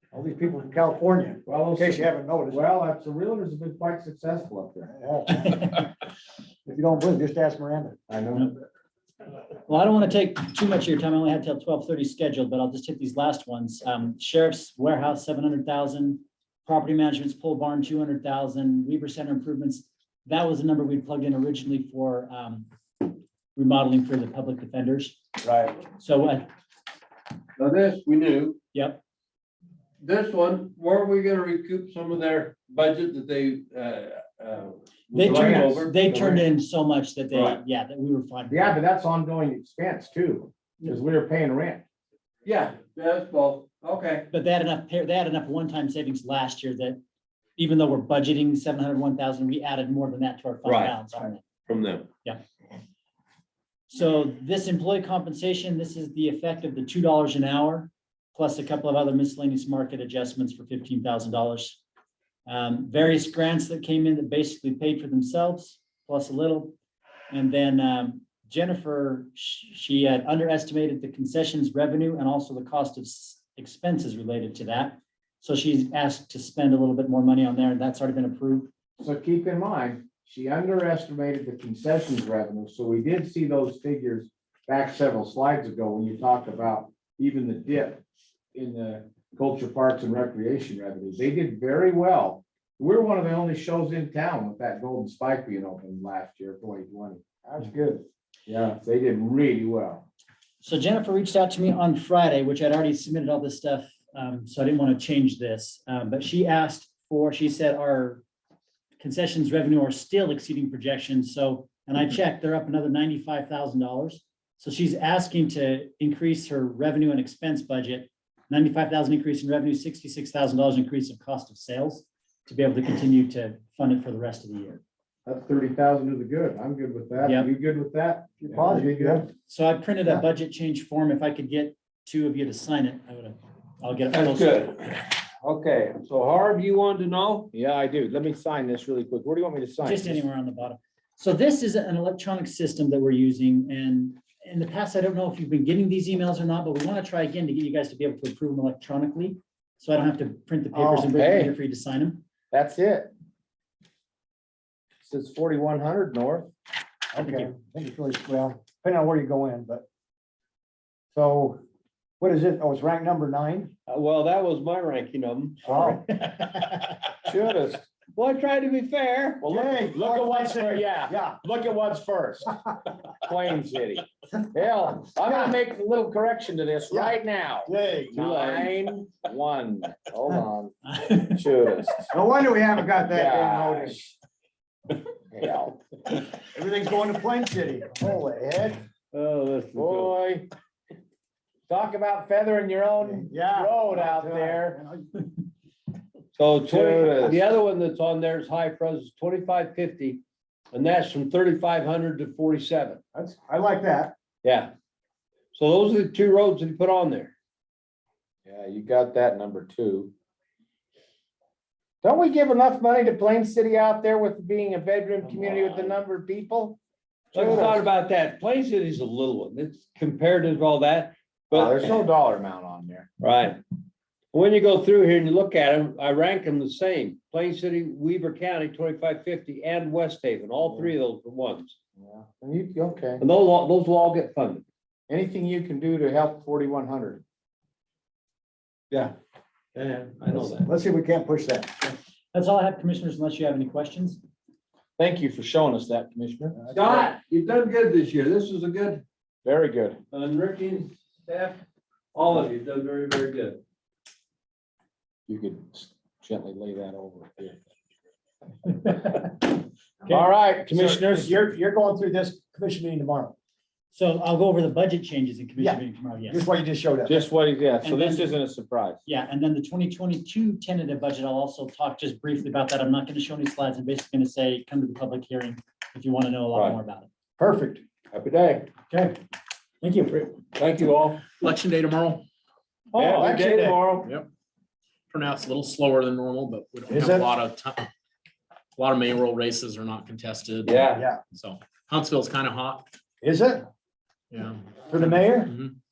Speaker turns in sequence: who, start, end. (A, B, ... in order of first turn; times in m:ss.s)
0:00.1-0:02.7 A
0:01.4-0:04.9 B
0:04.9-0:05.8 A
0:05.4-0:05.9 C
0:06.7-0:08.0 A
0:08.1-0:08.5 B
0:09.6-0:25.2 C
0:25.8-0:26.5 C
0:27.6-0:28.6 D
0:28.7-0:29.0 C
0:30.0-0:36.5 D
0:35.1-0:38.8 C
0:35.2-0:35.8 B
0:38.5-0:41.8 B
0:42.4-0:44.3 D
0:44.3-0:47.0 C
0:47.6-0:51.4 C
0:50.6-0:51.0 D
0:51.6-0:52.1 D
0:53.9-1:01.8 C
1:02.4-1:06.8 C
1:07.3-1:18.7 C
1:19.0-1:28.0 B
1:28.5-1:37.2 B
1:37.4-1:38.0 A
1:38.5-1:40.0 B
1:40.6-1:48.2 C
1:49.0-2:04.8 C
2:05.2-2:09.3 B
2:07.2-2:07.5 C
2:08.4-2:09.3 A
2:09.4-2:14.6 C
2:14.1-2:17.5 D
2:17.5-2:20.2 B
2:19.8-2:32.2 C
2:30.7-2:31.1 A
2:31.0-2:31.5 B
2:32.5-2:33.1 B
2:35.0-2:36.5 B
2:37.1-2:39.8 A
2:37.2-2:37.5 C
2:41.1-2:41.6 A
2:42.2-2:43.7 A
2:43.9-2:45.7 D
2:45.6-2:46.2 A
2:46.1-2:46.8 C
2:47.2-2:47.8 B
2:48.1-2:49.4 D
2:49.4-2:52.5 B
2:49.4-2:51.4 A
2:53.2-3:02.1 B
2:55.3-2:55.5 A
2:56.9-2:58.5 A
3:00.9-3:01.4 C
3:02.1-3:04.0 A
3:03.0-3:04.1 B
3:05.3-3:05.8 B
3:06.5-3:08.8 A
3:09.1-3:10.1 D
3:09.7-3:10.5 B
3:11.7-3:14.8 B
3:13.0-3:15.2 A
3:16.4-3:23.0 D
3:16.7-3:17.4 B
3:23.1-3:24.1 A
3:24.4-3:24.7 D
3:25.5-3:27.3 D
3:28.4-3:30.1 B
3:32.0-3:36.8 B
3:37.3-3:37.8 B
3:37.3-3:41.9 D
3:41.5-3:43.1 B
3:43.2-3:43.6 D
3:44.3-3:51.8 D
3:52.0-3:53.2 B
3:53.2-3:54.6 D
3:55.1-3:57.2 B
3:59.7-4:00.6 D
4:00.3-4:01.8 A
4:02.3-4:04.2 C
4:05.0-4:06.6 B
4:06.7-4:09.0 D
4:09.4-4:10.0 B
4:10.1-4:11.6 D
4:12.1-4:13.6 D
4:15.3-4:17.6 B
4:20.0-4:23.3 A
4:20.1-4:21.4 B
4:23.9-4:26.5 C
4:25.6-4:27.3 A
4:27.0-4:29.0 B
4:27.8-4:28.4 C
4:29.0-4:37.1 C
4:36.5-4:36.8 D
4:37.4-4:37.8 A
4:38.1-4:38.7 D
4:39.8-4:40.2 C
4:40.5-4:41.3 D
4:41.4-4:42.2 E
4:42.9-4:43.8 A
4:42.9-4:44.1 D
4:45.1-4:47.8 E
4:46.9-4:47.3 A
4:48.8-4:50.8 E
4:50.6-4:51.0 D
4:50.9-4:51.2 A
4:51.3-4:52.8 E
4:53.2-4:53.6 A
4:54.3-4:54.6 E
4:54.9-4:55.5 A